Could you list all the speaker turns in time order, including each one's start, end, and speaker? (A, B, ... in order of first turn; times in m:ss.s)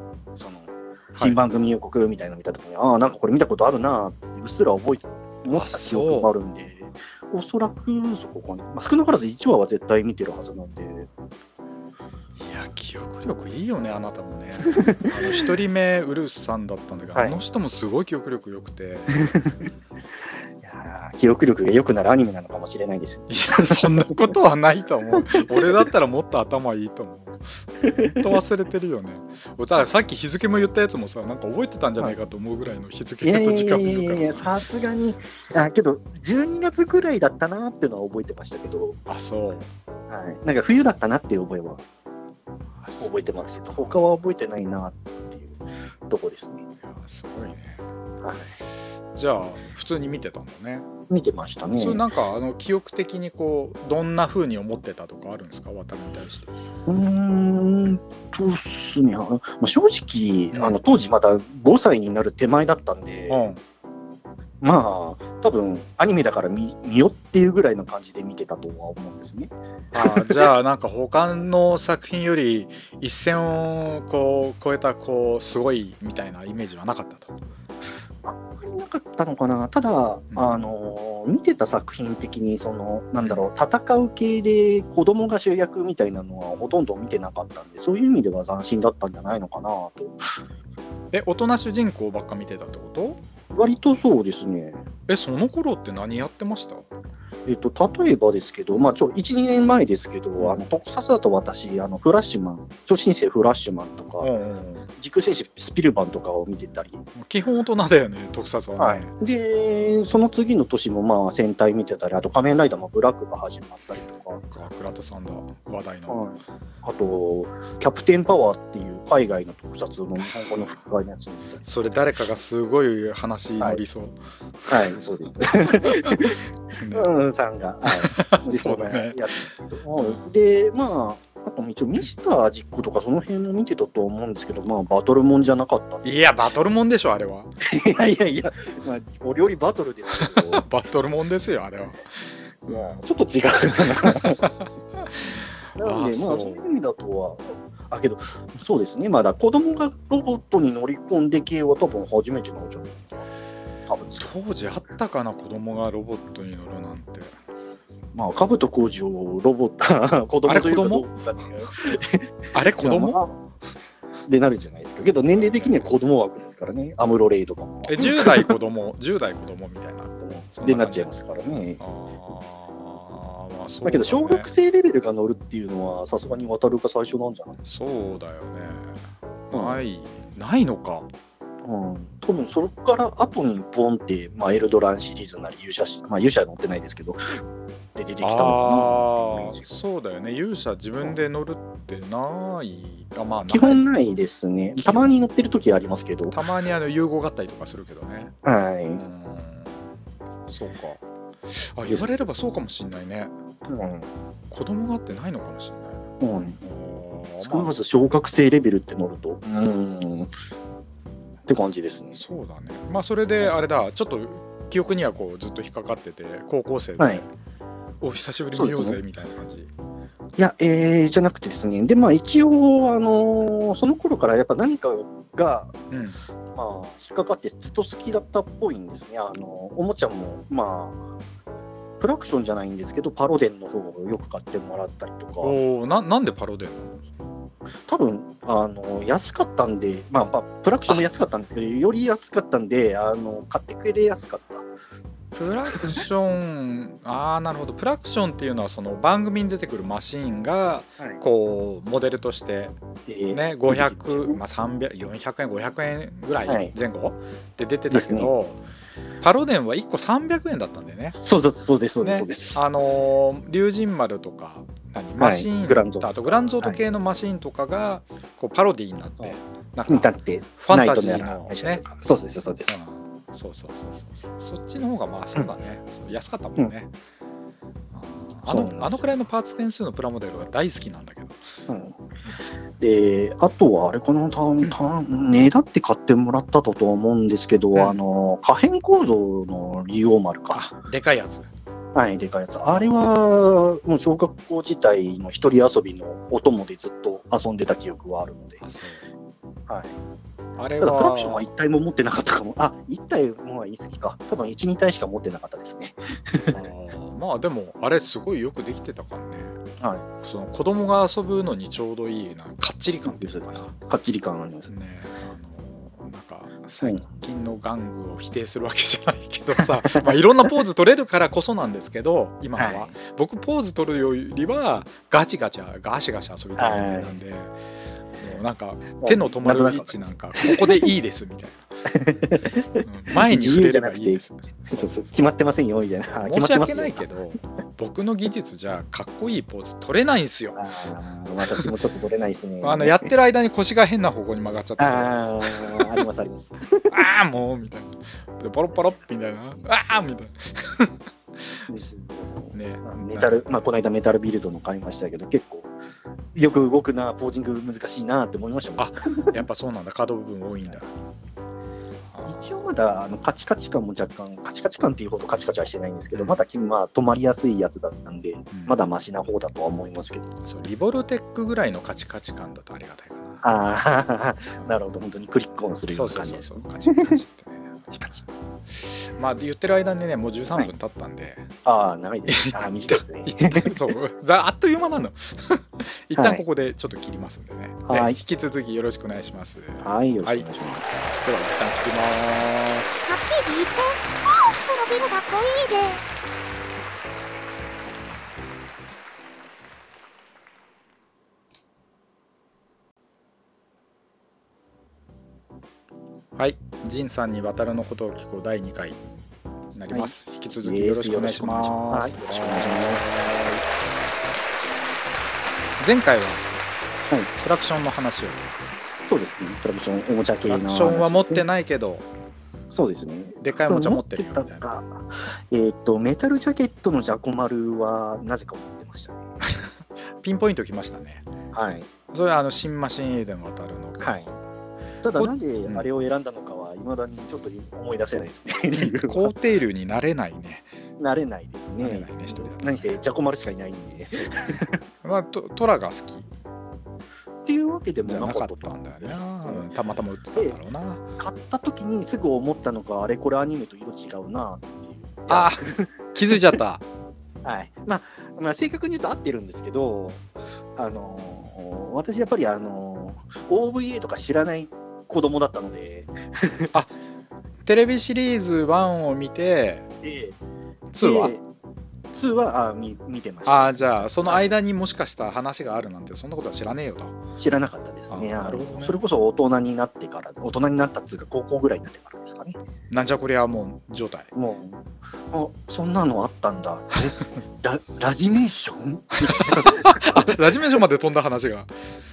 0:00.4-0:11.1 A
0:05.5-0:06.3 B
0:12.4-0:19.2 B
0:14.7-0:15.2 A
0:19.2-0:19.7 A
0:20.6-0:24.1 A
0:23.3-0:34.5 B
0:25.2-0:25.7 A
0:27.8-0:28.2 A
0:33.2-0:39.0 A
0:39.1-0:39.7 B
0:40.1-0:41.8 A
0:42.8-0:44.0 B
0:43.0-0:46.6 A
0:46.8-0:47.8 B
0:48.2-0:48.5 A
0:49.1-0:50.9 B
0:51.1-0:52.0 A
0:51.8-0:56.5 B
0:56.9-1:03.4 A
1:00.5-1:00.8 B
1:03.3-1:03.6 B
1:04.6-1:10.4 A
1:09.9-1:17.4 B
1:18.2-1:30.4 A
1:31.1-1:33.2 B
1:33.5-1:34.8 A
1:35.1-1:36.9 B
1:37.5-1:44.3 A
1:40.4-1:40.6 B
1:44.2-1:44.9 B
1:45.0-1:47.0 A
1:47.2-1:49.1 B
1:48.8-1:54.4 A
1:54.5-1:56.3 B
1:56.1-2:01.6 A
2:00.2-2:00.5 B
2:01.6-2:05.0 B
2:04.7-2:06.4 A
2:05.8-2:07.1 B
2:06.9-2:16.2 A
2:07.8-2:10.2 B
2:16.0-2:17.5 B
2:17.6-2:20.6 A
2:20.2-2:23.0 B
2:22.7-2:24.4 A
2:24.0-2:25.1 B
2:25.7-2:26.7 B
2:25.8-2:33.2 A
2:33.9-2:34.3 A
2:34.2-2:37.4 B
2:38.1-2:43.4 A
2:40.5-2:41.1 B
2:42.5-2:43.2 B
2:44.2-2:48.5 A
2:45.4-2:45.9 B
2:47.8-2:51.1 B
2:50.2-2:51.8 A
2:51.8-2:54.5 B
2:53.8-2:57.6 A
2:57.6-2:59.0 B
2:59.5-3:01.1 B
2:59.5-2:59.8 A
3:01.6-3:07.2 A
3:08.0-3:09.7 A
3:08.2-3:13.9 B
3:13.5-3:16.4 A
3:14.8-3:15.0 B
3:16.3-3:18.4 B
3:18.4-3:19.0 A
3:19.0-3:19.8 B
3:20.5-3:23.3 B
3:23.6-3:24.1 A
3:24.5-3:26.1 B
3:26.2-3:26.6 A
3:26.6-3:27.7 B
3:27.4-3:30.3 A
3:31.5-3:32.2 A
3:32.2-3:37.3 B
3:37.0-3:37.2 A
3:38.0-3:39.7 B
3:38.5-3:39.0 A
3:40.4-3:45.8 A
3:45.9-3:46.2 B
3:46.5-3:51.0 A
3:52.0-3:55.6 A
3:55.4-3:57.0 B
3:57.9-4:04.6 A
4:05.3-4:12.8 B
4:13.1-4:14.4 A
4:13.3-4:18.6 B
4:16.5-4:16.7 A
4:17.9-4:18.3 A
4:19.2-4:21.2 B
4:21.1-4:22.6 A
4:22.0-4:31.8 B
4:25.2-4:26.8 A
4:29.9-4:32.8 A
4:32.7-4:36.9 B
4:37.9-4:41.5 B
4:38.5-4:39.1 A
4:41.7-4:42.0 A
4:42.8-4:50.6 A
4:50.5-4:51.5 B
4:51.9-4:58.6 A
4:58.6-4:59.1 B
4:59.7-5:00.0 A
5:00.6-5:01.5 B
5:00.8-5:06.6 A
5:06.5-5:09.6 B
5:09.8-5:10.0 A
5:10.2-5:13.7 B
5:13.0-5:14.7 A
5:14.7-5:27.5 B
5:19.6-5:20.1 A
5:22.6-5:22.9 A
5:26.6-5:27.1 A
5:28.2-5:31.7 B
5:29.0-5:30.7 A
5:31.9-5:37.0 A
5:32.8-5:35.3 B
5:36.2-5:40.6 B
5:40.5-5:43.1 A
5:42.6-5:46.0 B
5:44.8-5:47.0 A
5:46.9-5:51.9 B
5:48.7-5:49.6 A
5:51.7-5:55.7 A
5:52.5-5:53.4 B
5:56.4-5:59.4 A
5:58.8-6:00.9 B
6:02.1-6:02.6 B
6:02.2-6:10.3 A
6:06.1-6:06.4 B
6:08.5-6:08.8 B
6:10.4-6:13.4 B
6:13.4-6:17.2 A
6:14.6-6:15.0 B
6:15.9-6:17.9 B
6:17.9-6:18.2 A
6:18.7-6:21.5 B
6:21.6-6:23.9 A
6:22.3-6:30.5 B
6:26.2-6:26.4 A
6:27.9-6:28.2 A
6:29.8-6:30.9 A
6:31.2-6:33.0 B
6:33.0-6:36.0 C
6:46.4-6:49.0 B
6:49.7-6:53.6 B
6:49.9-6:53.6 A
6:55.8-6:56.5 B
6:57.4-6:58.5 B
6:59.0-7:01.4 A
7:00.5-7:02.0 B
7:02.7-7:09.2 A
7:03.4-7:04.6 B
7:09.4-7:11.3 B
7:11.5-7:11.9 A
7:12.1-7:14.4 B
7:14.0-7:14.2 A
7:15.0-7:19.3 A
7:15.1-7:15.9 B
7:18.8-7:20.7 B
7:21.0-7:24.8 A
7:21.8-7:23.0 B
7:24.1-7:26.3 B
7:27.5-7:29.7 A
7:28.0-7:31.0 B
7:31.2-7:35.9 A
7:35.3-7:36.8 B
7:37.4-7:46.7 A
7:47.6-7:49.9 B
7:50.0-7:50.4 A
7:50.9-7:51.4 B
7:51.0-7:51.4 A
7:52.1-7:54.5 A
7:53.5-7:57.2 B
7:57.4-8:02.6 A
7:58.1-7:59.0 B
8:02.9-8:04.3 B
8:04.3-8:10.4 A
8:09.2-8:11.7 B